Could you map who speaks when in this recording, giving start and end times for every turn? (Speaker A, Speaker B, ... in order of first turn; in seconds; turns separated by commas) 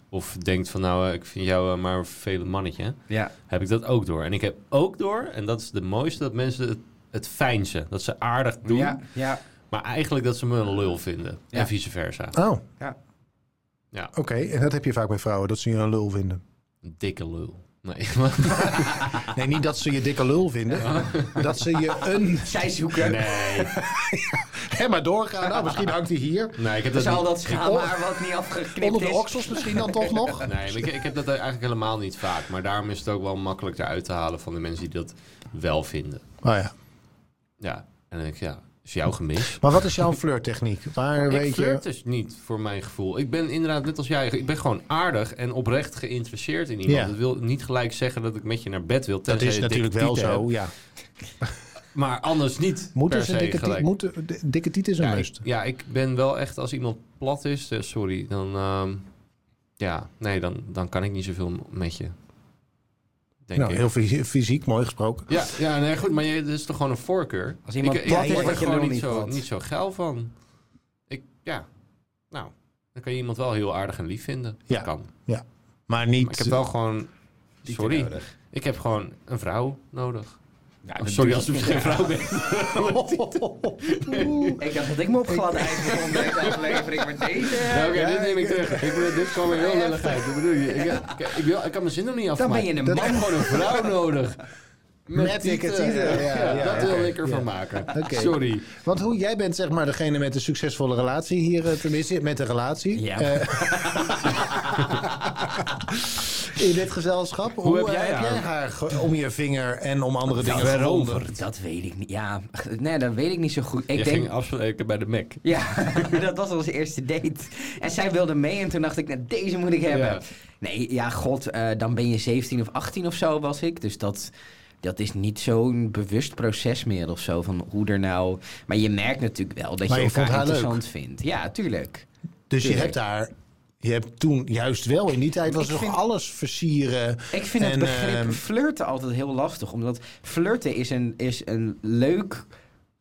Speaker A: 0.1-3.0, Speaker A: 3.5-9.0, Speaker B: 8.6-9.4, Speaker A: 9.7-12.4, Speaker C: 12.3-12.6, Speaker C: 14.1-16.4, Speaker A: 16.8-19.2, Speaker B: 19.0-19.2, Speaker C: 19.2-22.7, Speaker B: 20.7-21.0, Speaker A: 20.8-21.5, Speaker B: 22.2-23.3, Speaker A: 23.0-23.8, Speaker C: 23.6-26.6, Speaker B: 25.5-25.8, Speaker A: 26.6-27.8, Speaker B: 26.9-30.4, Speaker C: 27.5-27.9, Speaker C: 28.8-30.9, Speaker A: 30.4-36.2, Speaker C: 36.4-36.7, Speaker A: 37.6-39.6, Speaker C: 39.5-41.8, Speaker A: 41.3-50.5, Speaker C: 46.9-47.1, Speaker C: 49.3-50.7, Speaker A: 51.9-53.9, Speaker C: 53.0-55.4, Speaker A: 55.0-59.0, Speaker A: 59.8-62.1, Speaker A: 63.5-63.8, Speaker C: 63.5-65.4, Speaker A: 65.3-70.3, Speaker B: 67.7-69.4, Speaker C: 68.1-68.7, Speaker A: 71.1-71.6, Speaker A: 72.3-75.1, Speaker C: 74.7-76.6, Speaker A: 76.2-77.1, Speaker A: 77.6-80.4, Speaker B: 77.7-78.2, Speaker B: 80.8-82.2, Speaker A: 81.0-84.6, Speaker C: 82.7-84.6, Speaker B: 84.6-88.3, Speaker C: 85.3-86.3, Speaker A: 85.9-86.2, Speaker C: 87.4-89.3, Speaker A: 87.5-94.4, Speaker B: 89.4-91.2, Speaker B: 92.4-93.8, Speaker C: 92.8-93.2, Speaker A: 95.1-98.7, Speaker C: 95.1-104.9, Speaker B: 96.5-96.8, Speaker B: 102.9-105.7, Speaker C: 106.1-111.3, Speaker A: 107.6-108.5, Speaker A: 110.4-111.4, Speaker B: 111.3-114.3, Speaker A: 113.9-116.2, Speaker B: 115.4-132.1, Speaker A: 119.9-120.2, Speaker C: 129.9-130.8, Speaker C: 132.5-138.4, Speaker B: 132.6-132.9, Speaker B: 135.5-136.0, Speaker B: 137.3-142.5